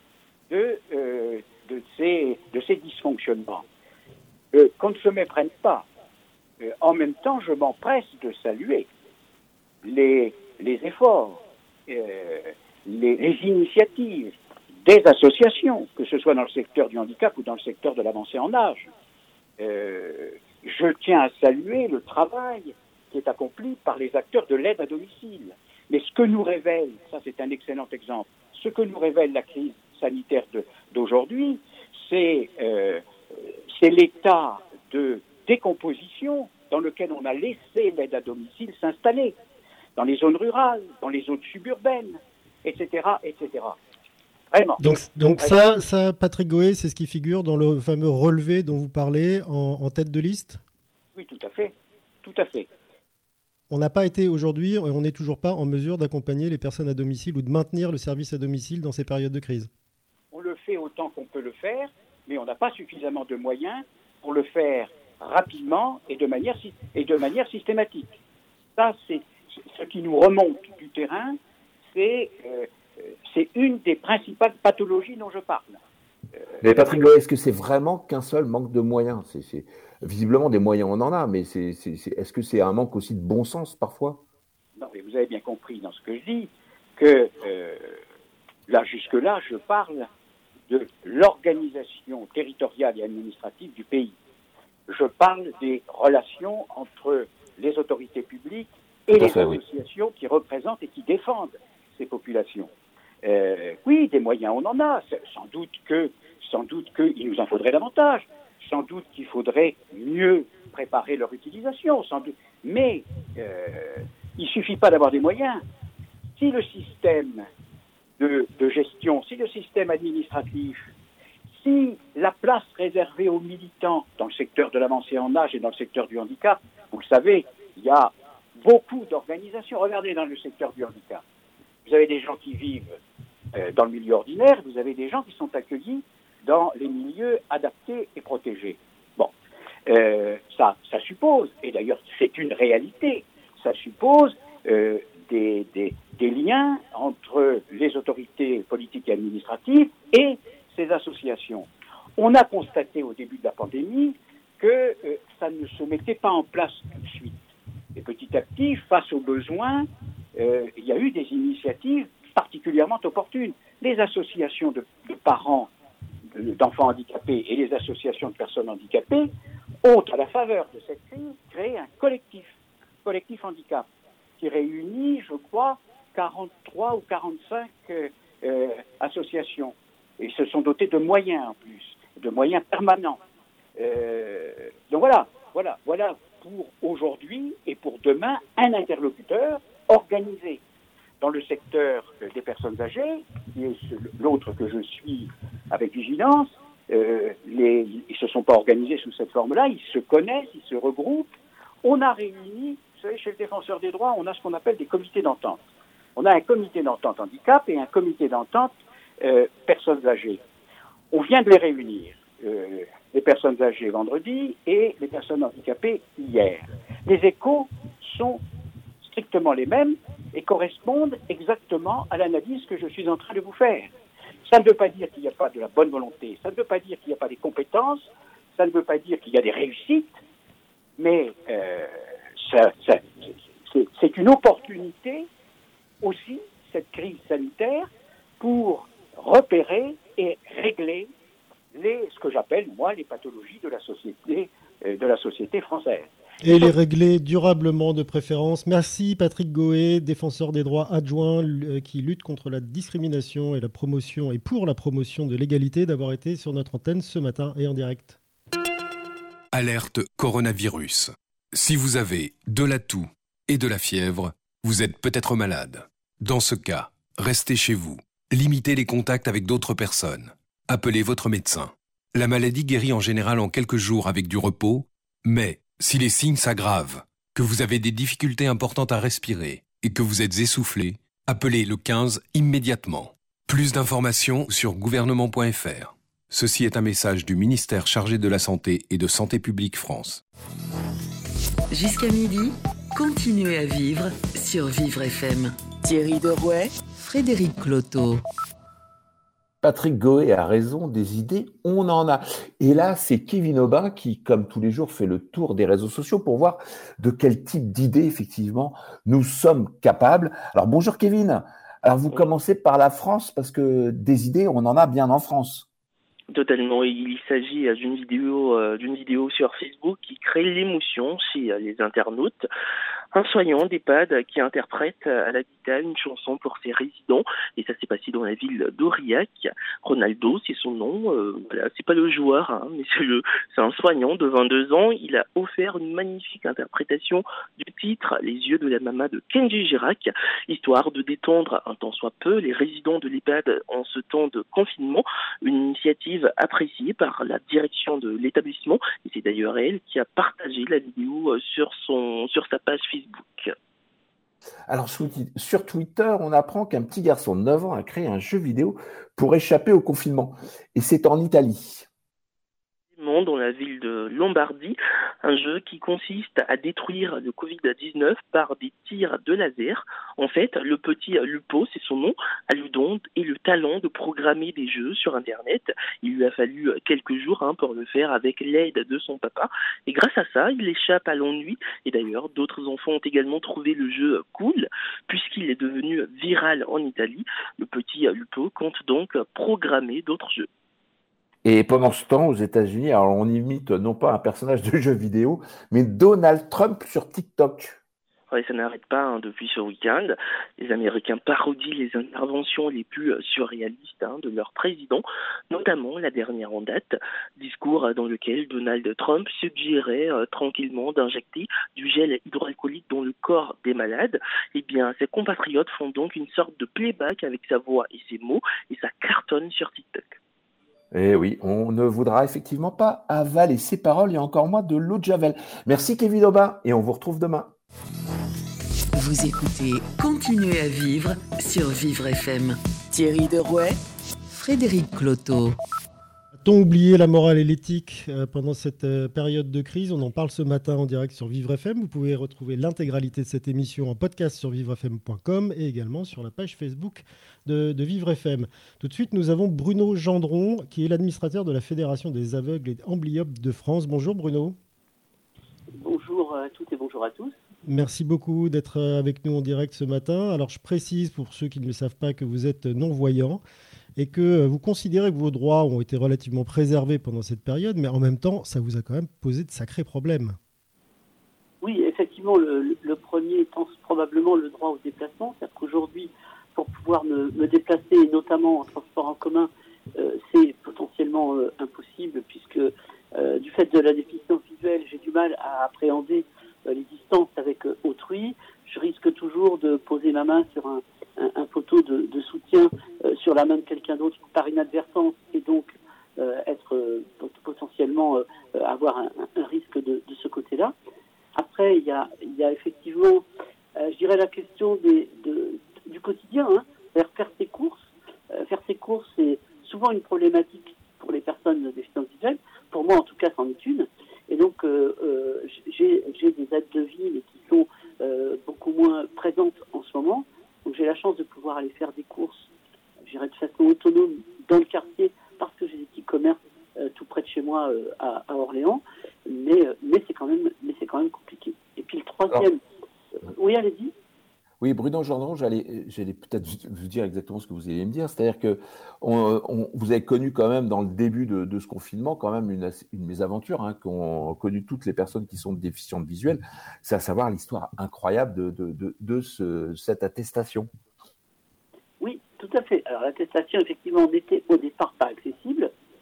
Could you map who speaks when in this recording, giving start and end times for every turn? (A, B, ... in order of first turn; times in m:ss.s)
0:00.5-0:03.6 A
0:04.5-0:05.8 A
0:06.6-0:08.9 A
0:09.8-0:18.9 A
0:19.6-0:39.4 A
0:40.0-0:43.8 A
0:44.5-0:45.5 A
0:44.8-0:50.6 B
0:51.2-0:52.7 A
0:53.7-0:59.7 B
1:00.3-1:08.1 A
1:08.8-1:11.4 A
1:11.9-1:15.8 A
1:16.6-1:24.2 C
1:24.8-1:28.0 A
1:28.7-1:30.1 A
1:30.7-1:34.2 A
1:34.9-1:42.7 A
1:39.2-1:39.6 C
1:43.2-1:55.6 A
1:56.3-1:57.5 A
1:58.2-2:00.9 A
2:01.5-2:11.2 A
2:11.8-2:12.9 A
2:13.5-2:19.3 A
2:19.9-2:45.7 A
2:46.3-2:49.3 A
2:49.8-2:53.8 A
2:54.4-3:03.2 A
3:03.8-3:10.6 A
3:11.2-3:21.3 A
3:21.8-3:25.6 A
3:26.2-3:30.4 A
3:31.1-3:38.4 A
3:39.0-3:43.9 A
3:44.4-3:50.2 A
3:51.0-3:55.3 A
3:56.0-4:01.1 A
4:01.7-4:06.1 A
4:06.4-4:18.2 B
4:19.5-4:50.2 D
4:51.7-4:58.2 E
4:59.6-5:15.6 C
5:16.3-5:22.4 F
5:23.1-5:53.5 F
5:54.7-6:01.9 C
6:03.0-6:30.5 F
6:31.4-6:37.8 C
6:38.3-7:00.2 F
7:00.9-7:07.5 C
7:08.9-7:15.6 E
7:16.4-7:34.6 B
7:35.8-7:37.4 G
7:37.6-7:43.4 B
7:44.0-7:50.4 B
7:51.6-8:20.7 G
8:21.3-8:23.2 G
8:23.8-8:42.5 G
8:43.0-8:52.6 G
8:53.3-8:53.9 G
8:54.6-9:10.7 C
9:12.0-9:15.7 G